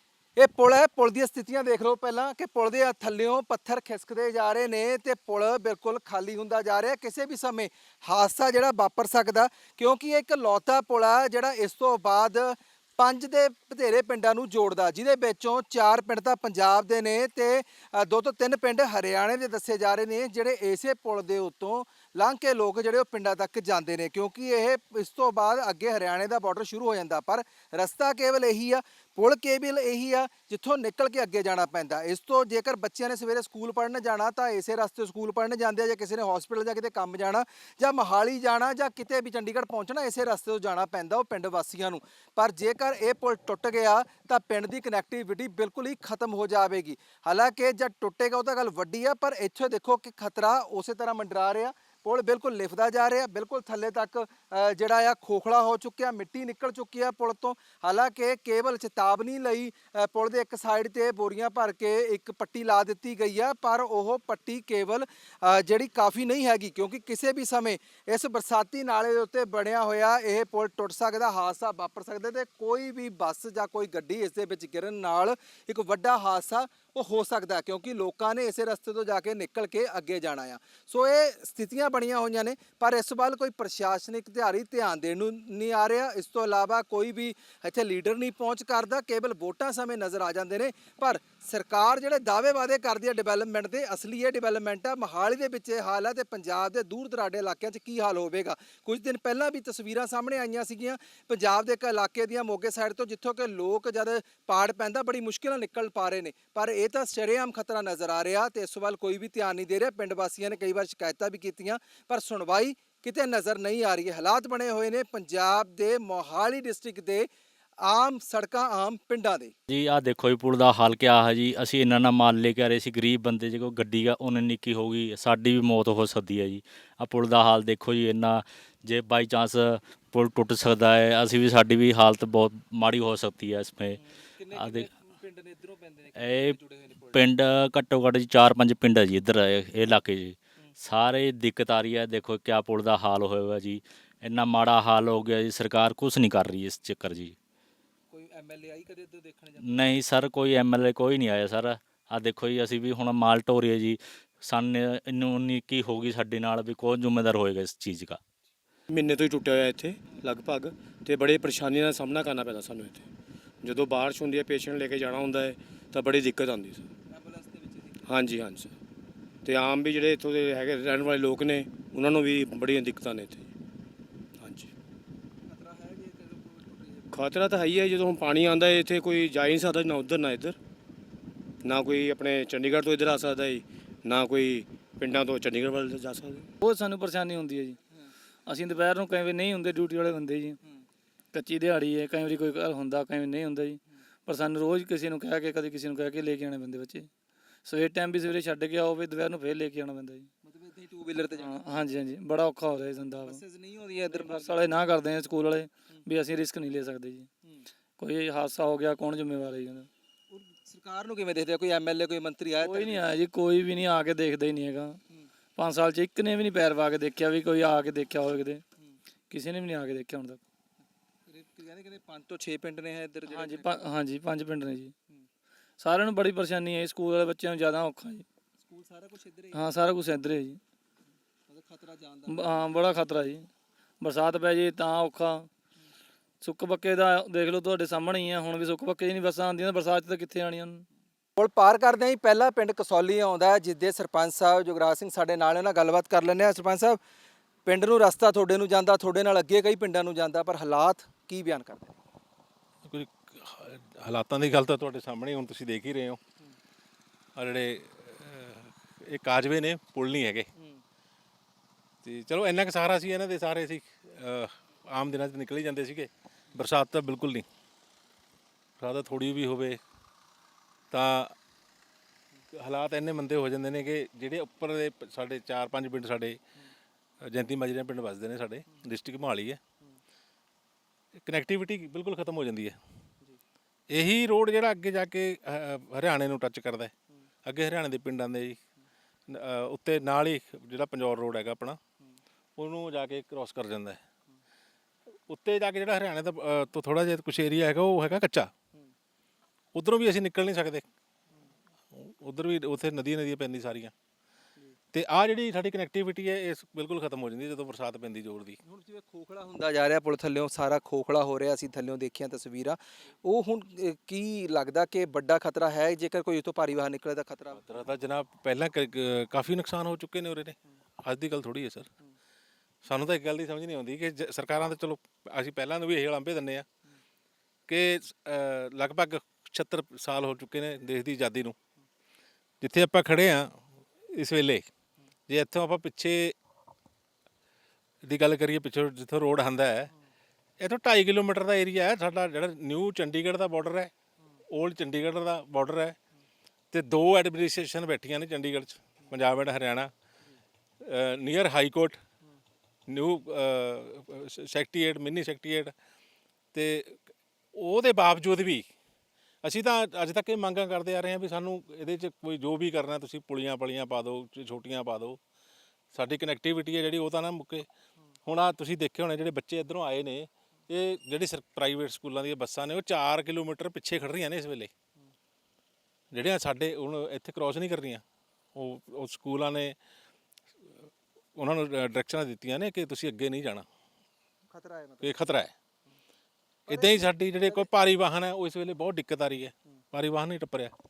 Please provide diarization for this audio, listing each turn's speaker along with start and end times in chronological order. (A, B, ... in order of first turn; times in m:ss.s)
0:00.4-1:57.3 A
1:57.8-1:59.5 A
1:59.7-2:14.0 B
2:14.4-2:17.2 A
2:14.5-2:14.9 B
2:16.2-2:16.6 B
2:17.1-2:27.4 B
2:28.1-2:29.9 A
2:29.6-2:38.2 B
2:38.9-2:43.1 C
2:43.6-2:46.9 C
2:47.1-2:48.1 A
2:48.0-2:48.7 C
2:49.4-2:53.5 C
2:54.4-2:54.7 C
2:55.5-2:57.1 A
2:57.1-3:00.6 C
3:01.6-3:06.5 C
3:06.6-3:07.8 D
3:08.5-3:10.6 D
3:11.3-3:17.1 D
3:17.6-3:20.3 D
3:20.5-3:21.6 A
3:21.4-3:23.4 D
3:23.2-3:24.8 A
3:24.1-3:27.3 D
3:28.0-3:29.9 D
3:30.3-3:32.9 A
3:32.6-3:35.0 D
3:35.6-3:38.6 D
3:39.3-3:40.4 D
3:41.3-3:43.8 A
3:43.3-3:44.9 D
3:45.8-3:48.2 D
3:48.6-3:49.6 A
3:49.5-3:50.6 D
3:51.5-3:52.4 A
3:52.3-3:55.5 D
3:56.4-4:00.8 D
4:01.4-4:07.0 A
4:07.7-4:12.0 A
4:12.8-4:16.2 E
4:17.4-4:20.5 E
4:22.0-4:27.5 E
4:28.8-4:29.8 E
4:30.9-4:31.4 E
4:32.5-4:36.4 E
4:37.2-4:39.6 E
4:41.2-4:42.8 E
4:43.9-4:46.9 E
4:47.4-4:48.6 E
4:49.3-4:51.8 E
4:52.6-4:54.0 E
4:55.3-4:58.5 E
4:59.8-5:00.9 E
5:01.9-5:03.9 E
5:04.9-5:08.6 E
5:08.6-5:17.6 A
5:17.6-5:21.9 E
5:22.8-5:26.7 E
5:27.7-5:31.6 E
5:32.6-5:33.6 E
5:34.1-5:34.7 E
5:35.3-5:36.4 E
5:38.0-5:39.9 E
5:40.6-5:43.9 E
5:44.5-5:46.0 E
5:46.7-5:49.9 E
5:50.8-5:52.0 E
5:52.9-5:55.7 E
5:56.5-5:58.7 E
5:59.4-6:05.2 E
6:05.9-6:07.7 E
6:08.3-6:14.7 E
6:16.1-6:18.0 E
6:18.6-6:19.8 E
6:21.4-6:23.6 E
6:24.5-6:25.2 A
6:25.0-6:25.5 E
6:26.7-6:30.7 E
6:26.7-6:27.1 A